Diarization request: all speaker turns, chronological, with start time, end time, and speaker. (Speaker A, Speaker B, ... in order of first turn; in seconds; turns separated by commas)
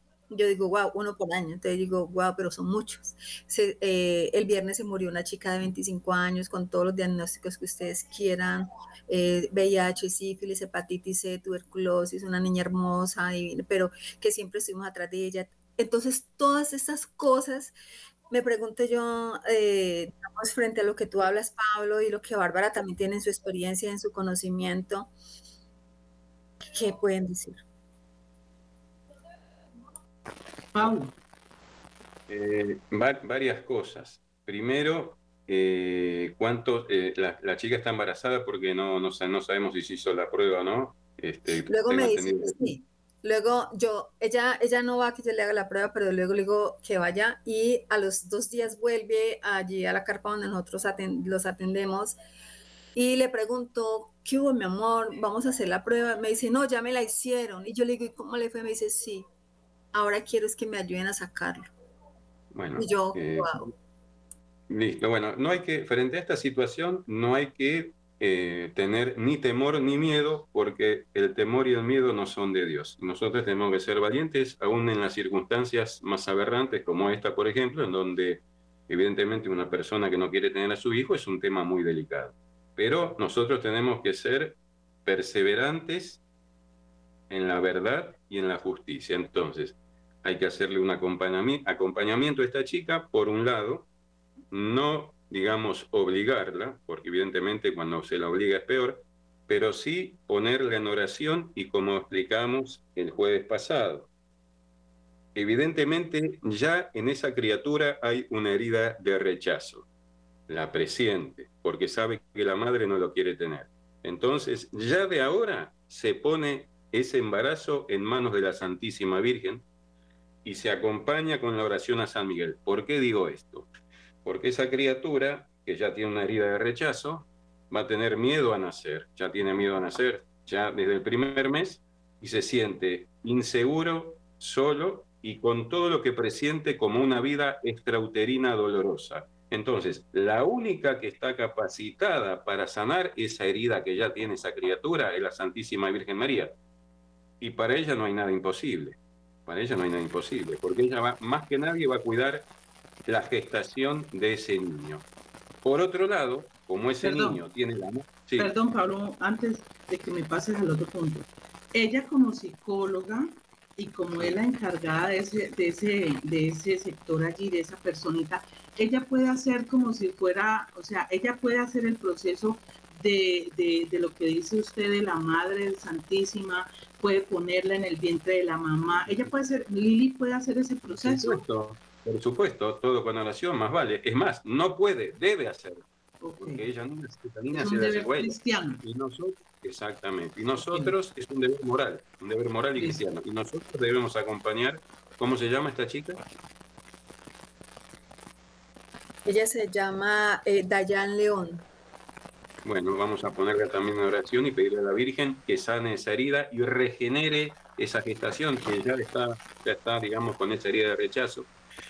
Speaker A: 0.3-17.7, Speaker A: 18.3-25.1, Speaker A: 26.7-27.6, Speaker B: 30.7-31.1, Speaker C: 32.3-42.7, Speaker A: 41.5-52.2, Speaker A: 53.0-59.2, Speaker A: 59.9-61.7, Speaker C: 62.5-63.7, Speaker A: 62.8-63.7, Speaker C: 64.7-86.2, Speaker C: 87.3-93.9, Speaker C: 94.5-104.1, Speaker C: 105.3-109.9, Speaker C: 110.5-119.7, Speaker C: 120.5-123.7, Speaker C: 124.2-146.6, Speaker C: 147.4-152.5, Speaker C: 153.1-155.1, Speaker C: 155.6-158.5, Speaker B: 157.0-157.4, Speaker B: 158.4-181.4, Speaker C: 179.0-179.3, Speaker C: 181.0-185.8, Speaker B: 186.2-186.7, Speaker C: 186.4-196.2, Speaker B: 187.5-188.8, Speaker B: 190.6-190.9, Speaker A: 199.3-201.7, Speaker C: 202.7-211.5